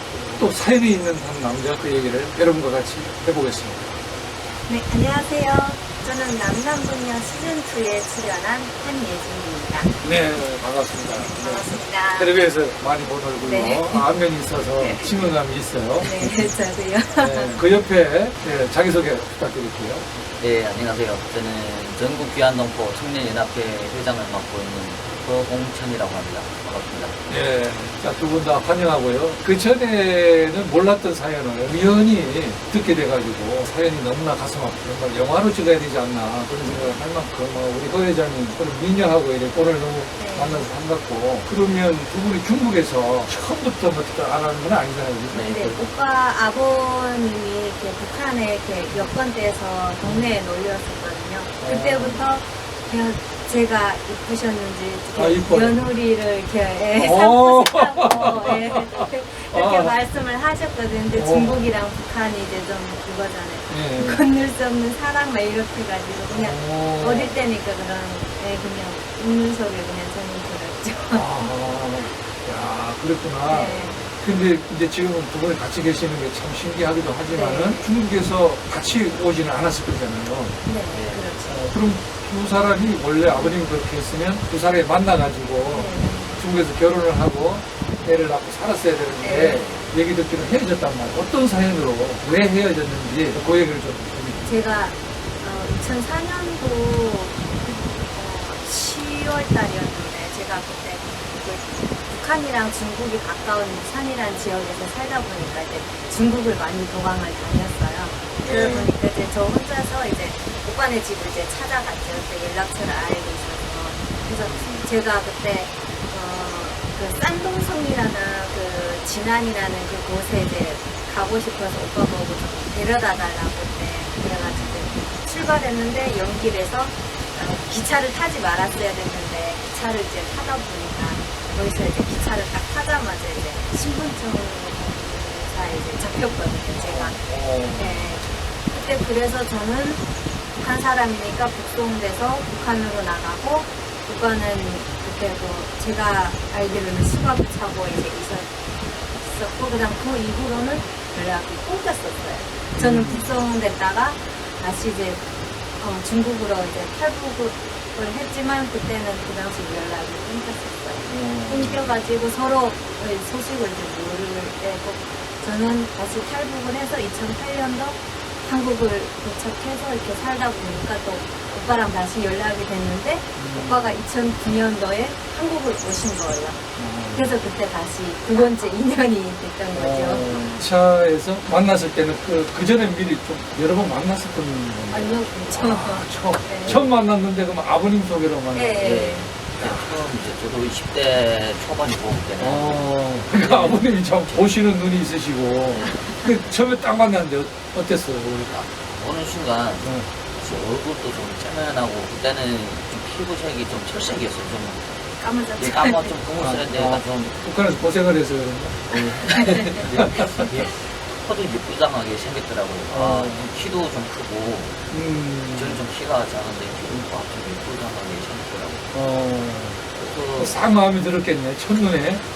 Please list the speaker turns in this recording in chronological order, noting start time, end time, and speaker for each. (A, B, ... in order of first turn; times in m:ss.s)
0:00.3-0:04.0 A
0:04.7-0:09.9 B
0:10.0-0:16.5 A
0:11.2-0:12.4 B
0:13.4-0:14.1 B
0:14.8-0:15.1 B
0:16.0-0:17.6 B
0:17.2-0:20.0 A
0:20.4-0:27.2 C
0:27.3-0:45.8 A
0:40.2-0:40.7 B
0:45.3-0:45.7 C
0:45.3-1:11.5 B
0:50.0-0:50.4 A
0:51.6-0:52.2 A
0:55.1-0:55.8 A
0:56.9-0:59.9 A
1:01.1-1:01.7 A
1:03.7-1:04.2 A
1:06.3-1:07.4 A
1:11.1-1:20.6 A
1:13.4-1:14.0 B
1:17.3-1:17.9 B
1:20.6-1:21.7 B
1:20.9-1:21.3 C
1:21.4-1:34.4 A
1:25.7-1:26.4 B
1:26.0-1:26.3 C
1:29.2-1:29.6 B
1:29.4-1:29.9 C
1:34.4-2:20.0 B
1:48.4-1:48.9 A
1:54.4-1:54.9 A
2:04.4-2:05.0 A
2:16.8-2:18.2 A
2:20.6-2:28.5 B
2:29.2-2:35.2 B
2:32.7-2:33.3 A
2:35.8-2:56.6 B
2:41.1-2:41.8 A
2:53.4-2:54.0 A
2:56.8-2:57.3 A
2:57.1-3:00.3 B
2:59.7-3:10.0 A
3:04.9-3:06.8 B
3:06.6-3:06.9 C
3:08.5-3:09.3 B
3:08.8-3:14.4 C
3:12.4-3:18.5 A
3:18.4-3:24.9 C
3:19.8-3:20.1 A
3:25.2-3:26.2 B
3:25.6-3:27.4 C
3:26.4-3:30.5 A
3:28.9-3:29.8 B
3:29.6-3:34.8 C
3:32.9-3:33.5 A
3:34.9-3:35.8 A
3:35.5-3:38.9 C
3:38.9-3:39.8 A
3:39.9-3:40.6 C
3:40.4-3:42.2 A